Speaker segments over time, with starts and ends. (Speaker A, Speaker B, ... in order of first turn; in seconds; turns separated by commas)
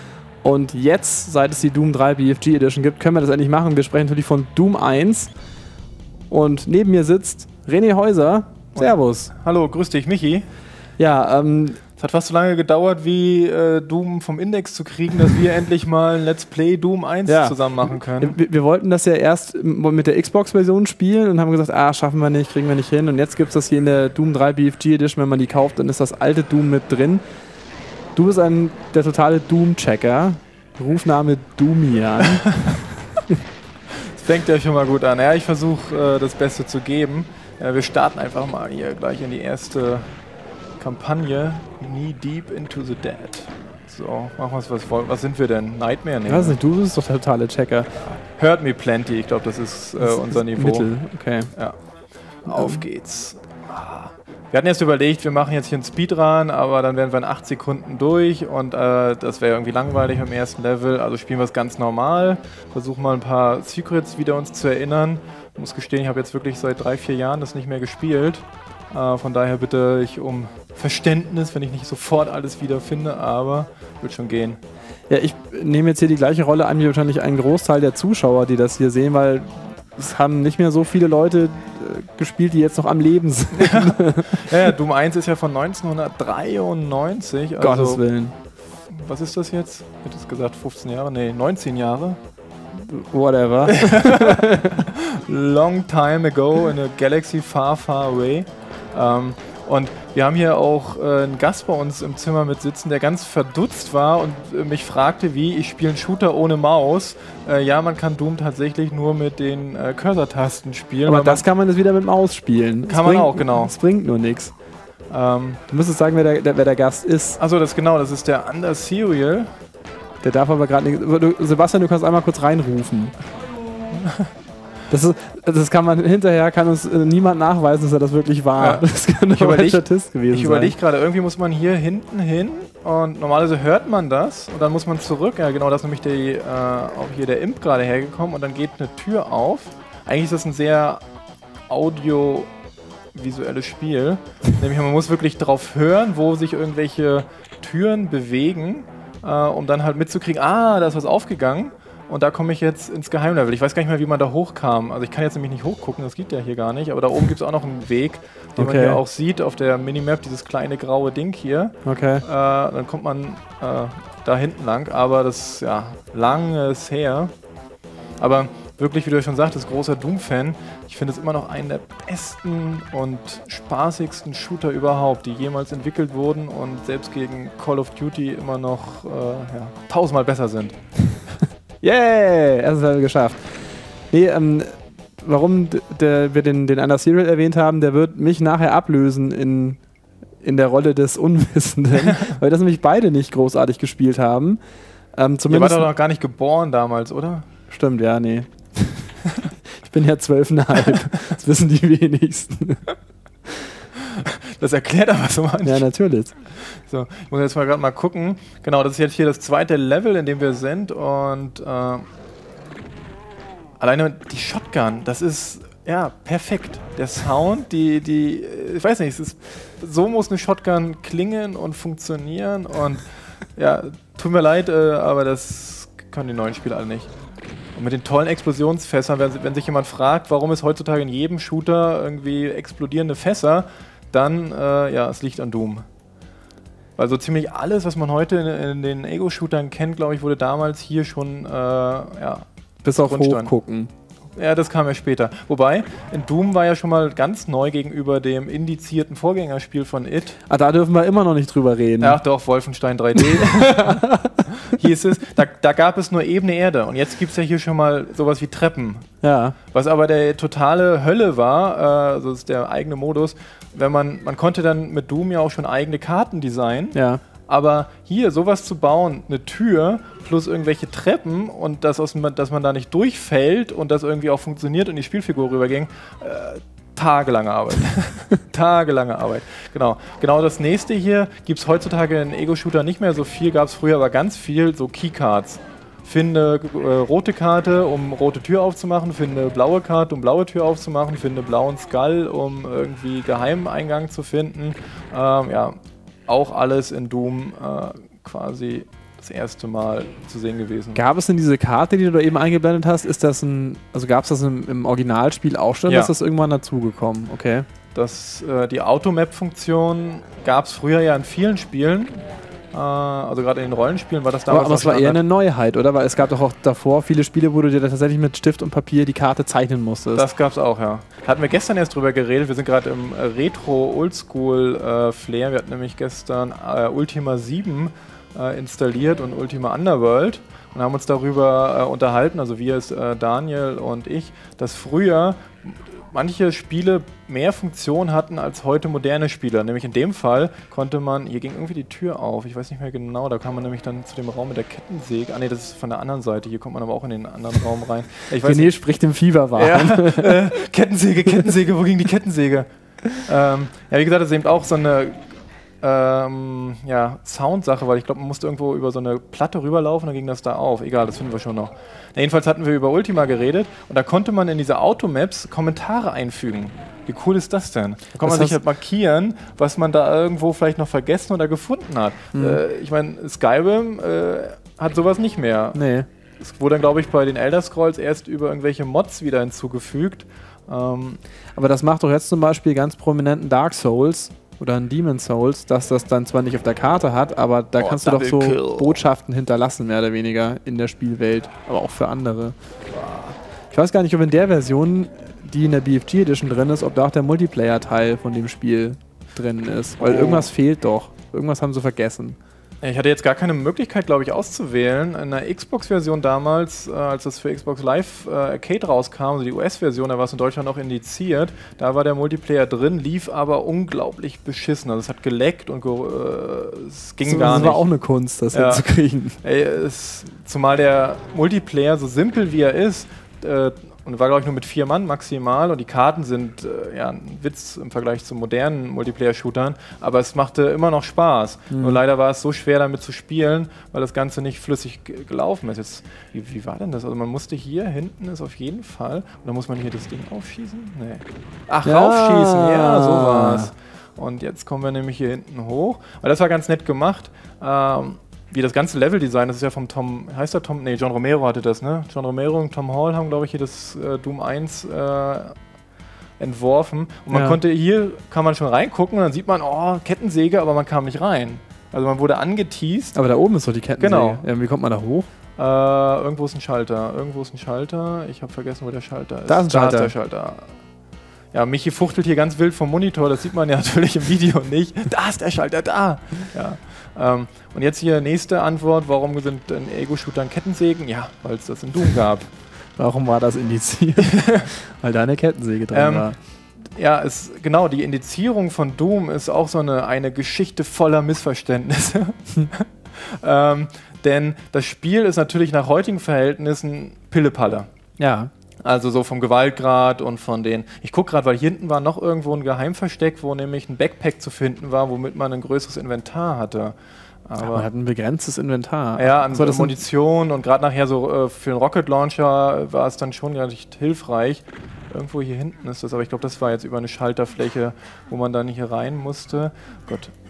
Speaker A: 0.4-5.3, Speaker A: 6.3-9.3, Speaker B: 8.7-10.4, Speaker A: 11.0-11.8, Speaker B: 12.0-18.4, Speaker A: 17.2-27.2, Speaker A: 28.1-32.8, Speaker B: 34.0-40.1, Speaker B: 40.8-46.6, Speaker A: 46.3-47.9, Speaker B: 48.4-50.9, Speaker A: 50.0-51.5, Speaker B: 52.4-74.6, Speaker A: 52.5-52.8, Speaker A: 75.1-84.4, Speaker B: 83.5-88.0, Speaker A: 87.6-88.3, Speaker B: 88.9-92.2, Speaker A: 92.8-94.8, Speaker B: 93.7-111.4, Speaker A: 111.0-114.5, Speaker B: 112.8-113.7, Speaker B: 115.1-115.6, Speaker A: 115.7-117.4, Speaker B: 117.4-119.5, Speaker A: 120.2-123.1, Speaker B: 123.9-124.3, Speaker A: 124.9-130.8, Speaker B: 128.6-141.0, Speaker B: 141.7-142.5, Speaker B: 143.1-167.3, Speaker A: 158.6-159.0, Speaker A: 161.8-162.2, Speaker B: 168.2-180.7, Speaker A: 181.8-183.4, Speaker A: 184.1-189.8, Speaker A: 190.4-194.6, Speaker A: 195.1-195.8, Speaker B: 195.5-197.4, Speaker A: 197.7-199.1, Speaker A: 199.8-202.8, Speaker B: 200.8-201.0, Speaker B: 204.2-205.8, Speaker A: 205.6-206.3, Speaker B: 206.6-212.1, Speaker B: 213.8-223.0, Speaker B: 223.6-227.1, Speaker B: 227.7-235.8, Speaker B: 237.0-242.4, Speaker A: 242.8-243.9, Speaker B: 243.0-243.5, Speaker B: 244.3-250.4, Speaker A: 250.5-252.2, Speaker B: 252.0-254.0, Speaker A: 253.4-254.4, Speaker B: 254.6-259.1, Speaker A: 259.2-259.6, Speaker B: 259.7-295.8, Speaker A: 266.9-267.2, Speaker B: 296.3-301.0, Speaker A: 300.9-307.6, Speaker B: 305.9-306.1, Speaker B: 307.9-315.2, Speaker A: 314.5-320.3, Speaker B: 320.1-348.7, Speaker A: 348.4-350.3, Speaker B: 349.6-352.7, Speaker B: 353.2-355.3, Speaker B: 355.8-375.8, Speaker A: 368.2-368.6, Speaker A: 372.3-372.6, Speaker A: 375.7-376.1, Speaker B: 376.4-381.2, Speaker A: 381.6-392.5, Speaker B: 387.8-389.0, Speaker B: 392.9-393.4, Speaker A: 393.7-402.4, Speaker B: 400.0-400.5, Speaker B: 402.8-417.9, Speaker A: 417.2-419.4, Speaker B: 418.5-418.8, Speaker B: 419.4-455.5, Speaker A: 431.7-432.0, Speaker A: 441.8-443.7, Speaker B: 456.4-463.2, Speaker A: 457.3-457.6, Speaker A: 463.1-465.3, Speaker B: 464.0-464.4, Speaker B: 465.6-470.7, Speaker A: 469.5-470.1, Speaker B: 471.5-482.5, Speaker A: 483.0-486.4, Speaker B: 484.2-484.7, Speaker B: 485.9-486.3, Speaker B: 486.9-497.9, Speaker A: 498.2-498.5, Speaker B: 498.8-506.9, Speaker B: 507.4-507.9, Speaker A: 507.6-510.0, Speaker B: 509.1-520.3